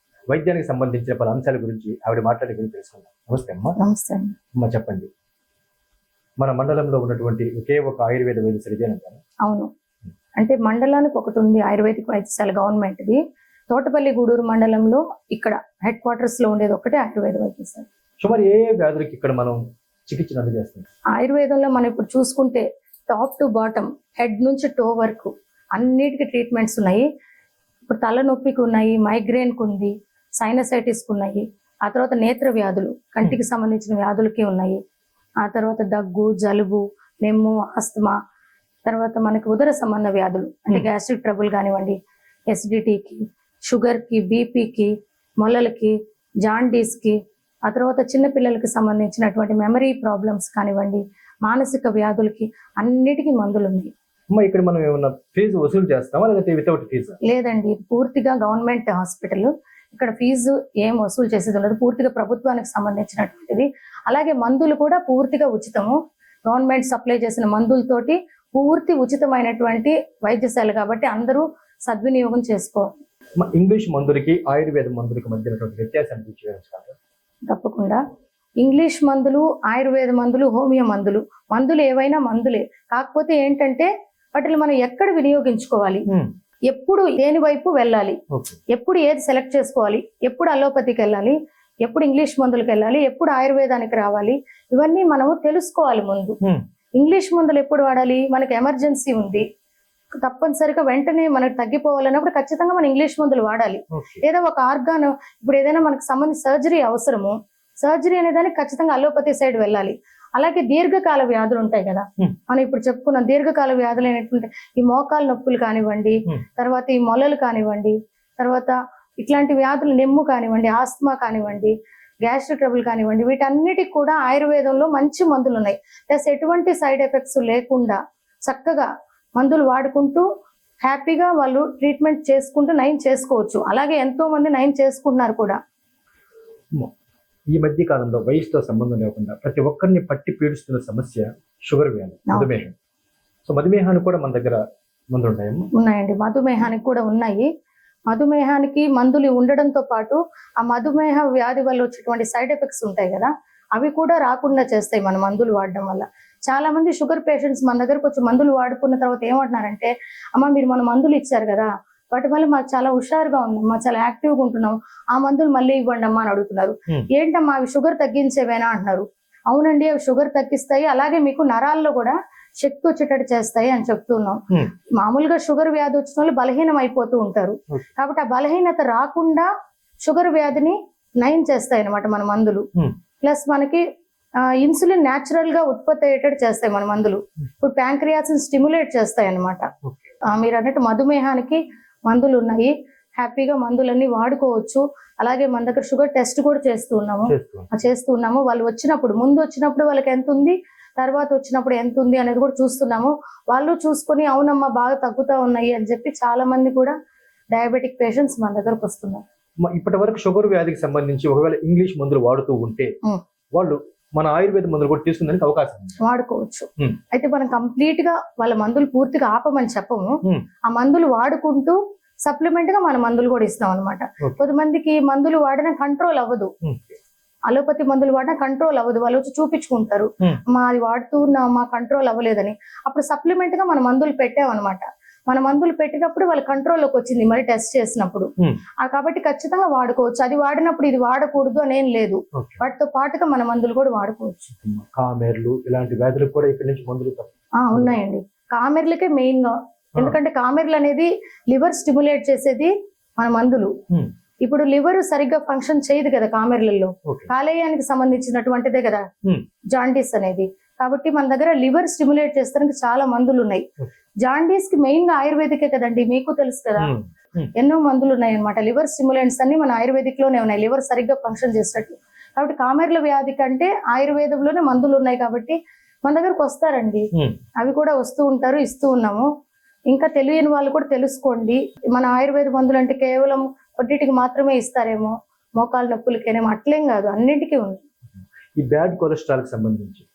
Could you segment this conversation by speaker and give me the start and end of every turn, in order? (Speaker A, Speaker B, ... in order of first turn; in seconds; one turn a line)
Speaker A: 0.3-3.8
Speaker B: 3.8-4.4
Speaker A: 4.6-5.1
Speaker A: 6.4-9.2
Speaker B: 10.4-13.2
Speaker B: 13.7-17.9
Speaker A: 18.2-20.9
Speaker B: 21.1-27.1
Speaker B: 27.9-34.8
Speaker B: 35.4-38.1
Speaker B: 38.9-42.0
Speaker B: 42.5-45.9
Speaker B: 46.5-53.9
Speaker A: 54.3-57.2
Speaker B: 57.2-73.0
Speaker A: 73.4-77.0
Speaker B: 77.5-78.0
Speaker B: 78.6-86.0
Speaker B: 86.7-88.2
Speaker A: 88.3-88.6
Speaker B: 88.7-96.4
Speaker B: 97.0-99.5
Speaker B: 100.2-130.2
Speaker A: 103.9-104.2
Speaker B: 130.8-135.6
Speaker A: 137.5-142.8
Speaker A: 143.5-145.7
Speaker B: 145.8-147.5
Speaker B: 148.1-174.4
Speaker B: 175.0-179.5
Speaker B: 180.0-182.7
Speaker B: 183.2-183.8
Speaker B: 184.6-189.7
Speaker A: 189.8-190.1
Speaker B: 190.3-207.0
Speaker A: 197.3-197.7
Speaker B: 207.5-209.2
Speaker A: 209.6-212.9
Speaker A: 213.6-216.0
Speaker B: 216.0-226.5
Speaker A: 226.6-227.0
Speaker B: 227.5-238.3
Speaker B: 238.8-244.6
Speaker A: 242.4-242.7
Speaker A: 244.6-248.0
Speaker B: 247.6-253.7
Speaker B: 254.4-259.1
Speaker B: 259.7-263.7
Speaker B: 264.2-266.9
Speaker A: 266.8-267.5
Speaker B: 267.6-277.1
Speaker B: 277.6-279.3
Speaker B: 279.9-287.8
Speaker A: 288.6-290.1